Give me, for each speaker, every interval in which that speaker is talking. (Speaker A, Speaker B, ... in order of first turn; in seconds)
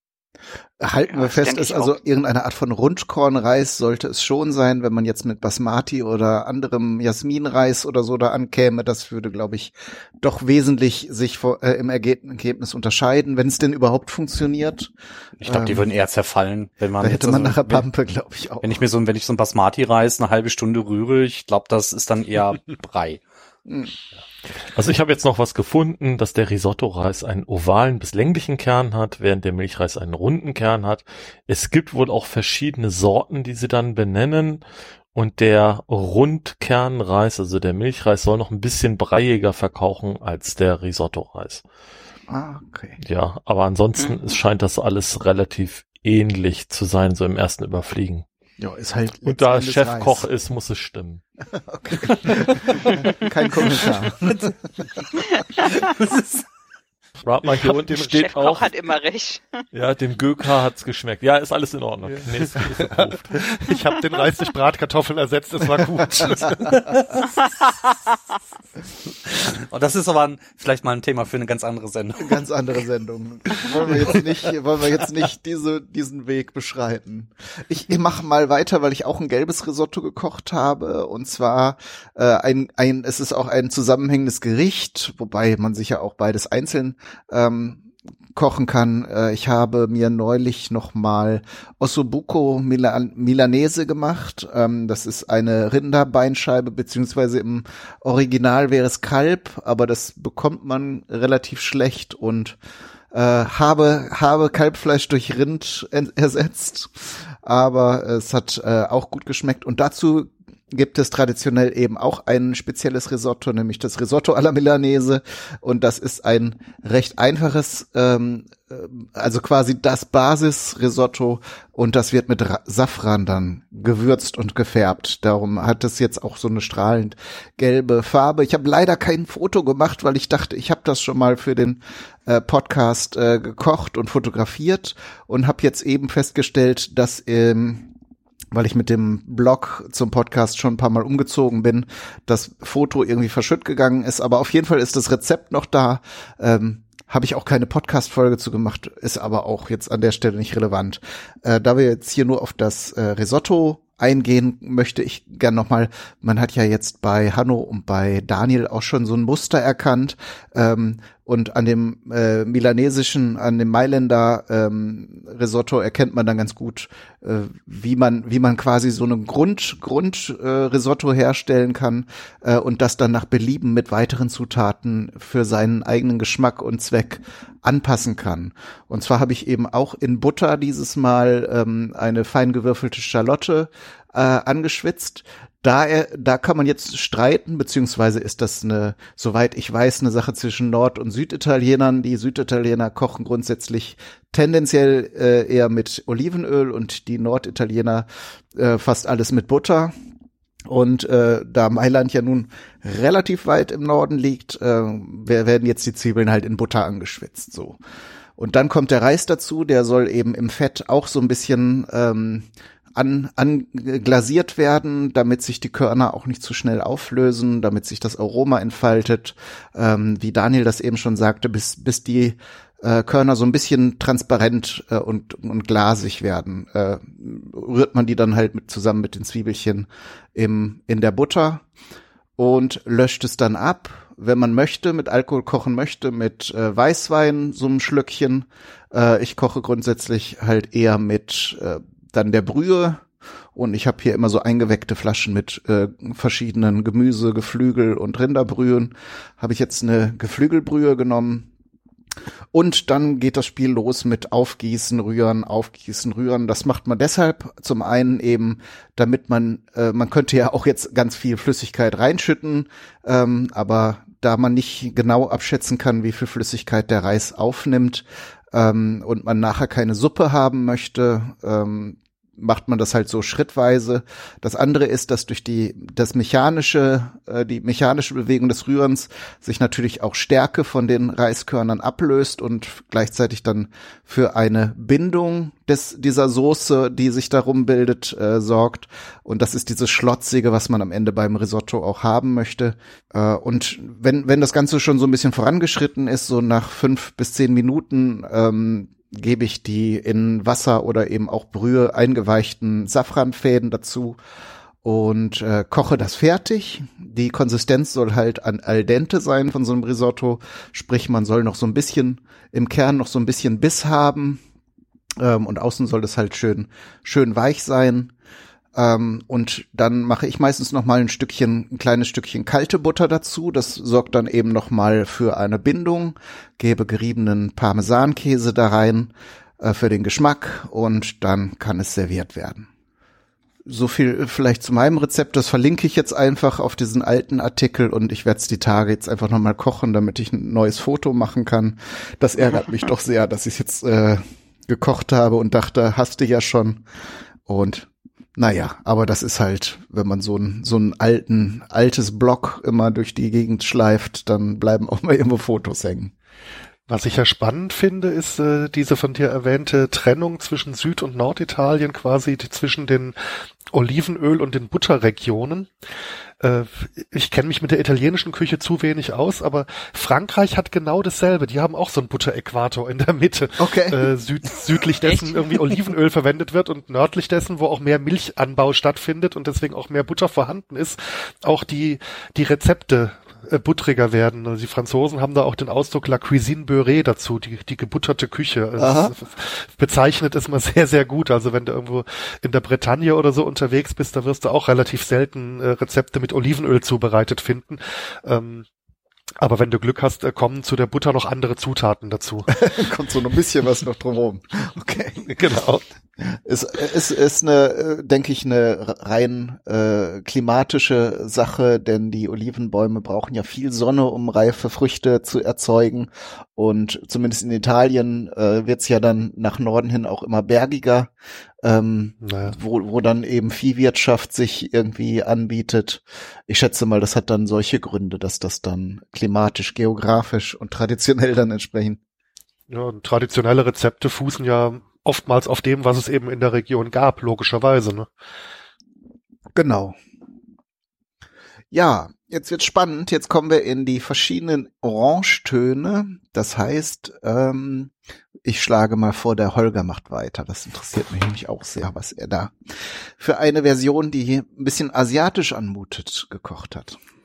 Speaker A: 0.8-15.9, 17.0-18.8, 23.7-23.9, 42.3-43.0, 48.6-50.3, 51.5-54.9, 72.2-102.6, 103.1-137.9, 138.5-199.9, 200.7-207.8, 208.4-231.7, 232.4-251.5, 252.5-304.2, 304.8-314.4, 315.2-318.1, 318.8-332.7, 333.7-346.8, 347.5-356.1, 373.6-374.1, 388.8-389.1, 402.5-405.3, 406.2-421.1, 421.6-432.0, 439.6-440.0, 441.7-447.9, 448.4-452.6, 453.2-457.0
Speaker B: 1.1-2.0, 44.0-44.2, 52.9-53.2, 55.1-55.9, 58.0-59.6, 67.2-68.3, 375.0-375.6
Speaker C: 15.4-17.9, 18.6-23.2, 56.0-56.4, 69.5-72.4, 73.5-74.2
Speaker D: 24.7-34.6, 35.1-41.6, 43.0-48.2, 49.2-51.2, 57.2-58.7, 59.7-63.6
Speaker E: 57.4-58.2, 62.0-67.0, 356.9-363.2, 363.7-365.7, 366.4-398.7, 399.4-402.5, 405.2-405.8, 422.2-422.6, 432.7-438.1